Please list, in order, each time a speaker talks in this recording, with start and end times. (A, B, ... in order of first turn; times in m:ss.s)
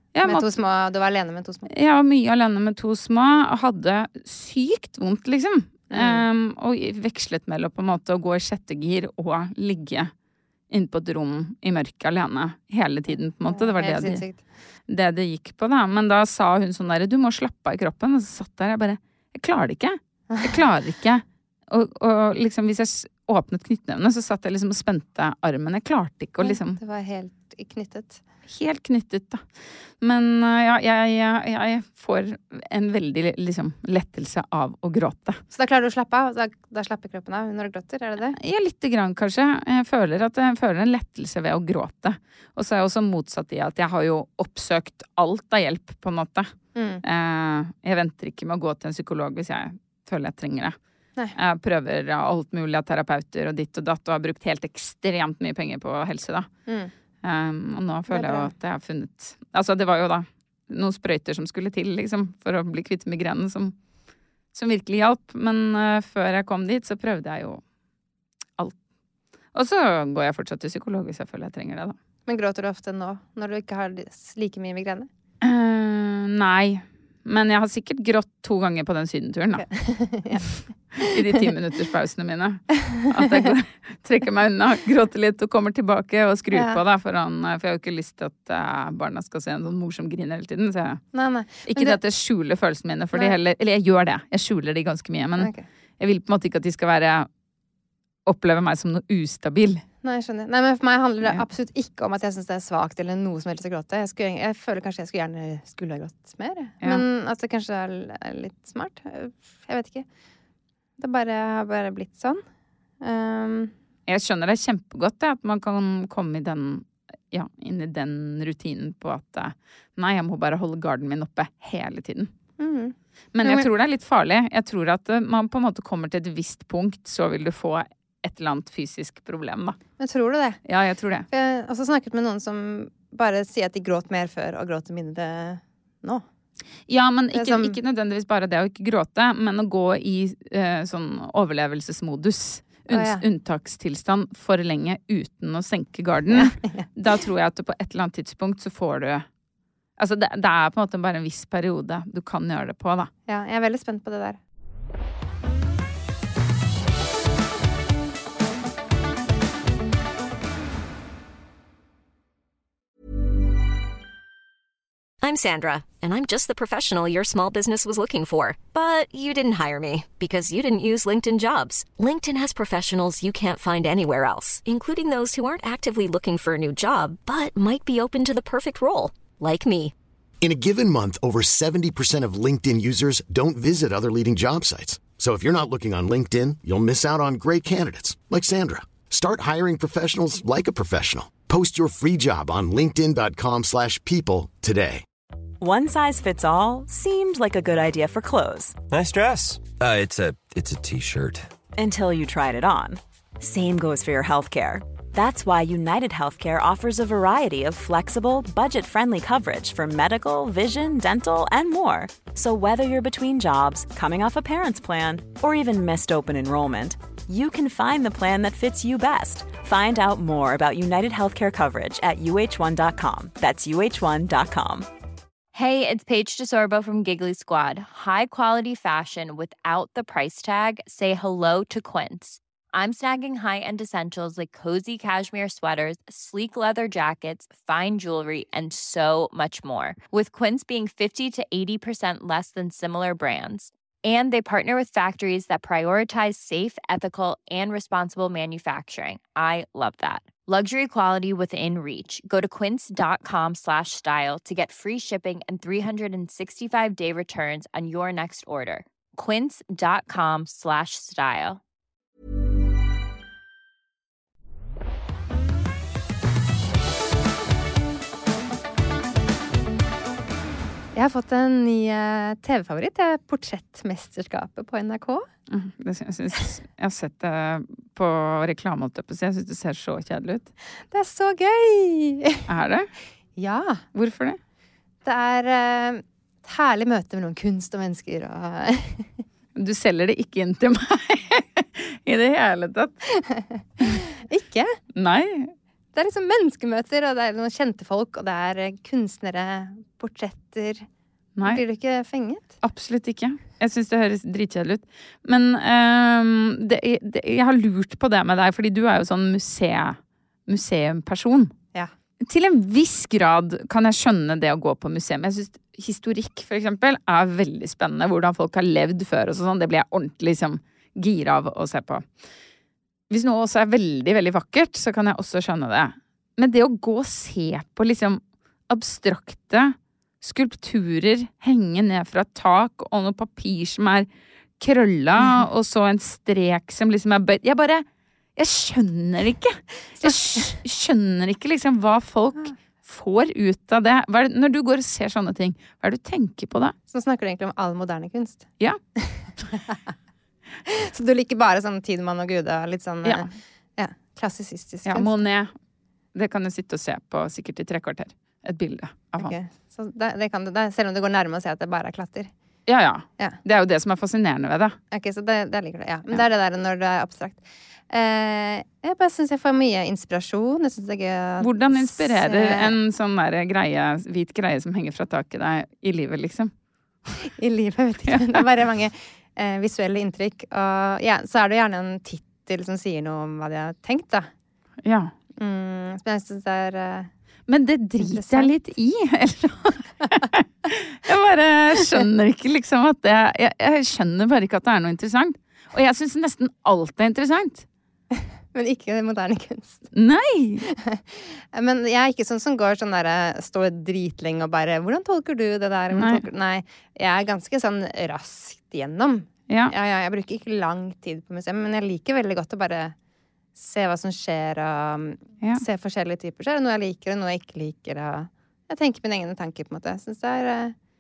0:00.2-0:00.5 A
0:00.2-0:01.7 B
0:01.7-0:10.1 A
0:05.9-0:06.2 B
0:10.7-0:14.2 A
0:13.5-0:14.4 B
0:14.9-0:26.8 A
0:26.4-0:28.2 B
0:28.5-0:29.4 A
0:30.0-0:35.4 A
0:35.5-0:38.4 B
0:38.4-0:46.5 A
0:46.8-0:47.0 B
0:47.0-0:50.8 A
0:51.4-0:56.5 A
0:56.7-0:56.9 B
0:57.2-1:03.8 A
0:58.1-0:58.5 B
1:04.5-1:07.6 A
1:09.5-1:12.0 A
1:12.3-1:15.1 B
1:15.4-1:19.6 A
1:19.6-1:21.1 B
1:21.0-1:31.0 A
1:23.2-1:23.5 B
1:26.5-1:26.8 B
1:31.1-1:32.0 B
1:31.6-1:37.3 A
1:35.4-1:35.6 B
1:38.3-1:39.8 A
1:40.0-1:50.1 B
1:51.0-1:52.4 B
1:53.0-1:53.7 B
1:54.1-2:02.3 A
2:02.6-2:03.7 B
2:03.4-2:09.8 A
2:10.0-2:10.6 B
2:10.7-2:11.3 A
2:11.3-2:16.2 B
2:16.9-2:29.2 A
2:17.3-2:17.8 B
2:22.9-2:23.2 B
2:26.3-2:26.9 B
2:30.0-2:33.1 A
2:33.3-2:34.4 B
2:45.2-2:59.9 C
3:00.4-3:15.0 D
3:15.6-3:18.8 E
3:18.9-3:21.5 F
3:21.8-3:44.9 E
3:45.5-4:21.6 G
4:30.9-4:35.2 B
4:35.5-4:40.5 A
4:40.9-4:42.4 B
4:42.5-4:42.9 A
4:43.4-4:43.8 B
4:44.0-4:44.4 A
4:45.0-4:49.1 B
4:49.6-4:53.0 A
4:53.3-4:54.8 B
4:55.0-4:55.5 A
4:56.0-5:00.9 B
5:01.4-5:01.6 A
5:01.4-5:02.5 B
5:02.6-5:11.5 A
5:12.2-5:22.0 A
5:23.1-5:34.1 A
5:34.6-5:37.8 A
5:38.4-5:46.8 A
5:46.9-5:48.5 B
5:49.0-5:49.8 B
5:50.7-5:55.2 B
5:54.9-5:55.5 A
5:56.2-5:59.3 A
5:59.2-6:02.3 B
6:02.7-6:04.8 A
6:04.9-6:12.7 B
6:11.4-6:16.5 A
6:17.4-6:24.3 B
6:18.1-6:18.4 A
6:24.8-6:25.1 A
6:25.4-6:27.1 B
6:27.5-6:37.6 A
6:28.0-6:28.5 B
6:38.2-6:39.8 B
6:40.0-6:40.6 A
6:40.7-6:53.0 B
6:45.9-6:46.2 A
6:53.6-7:00.8 B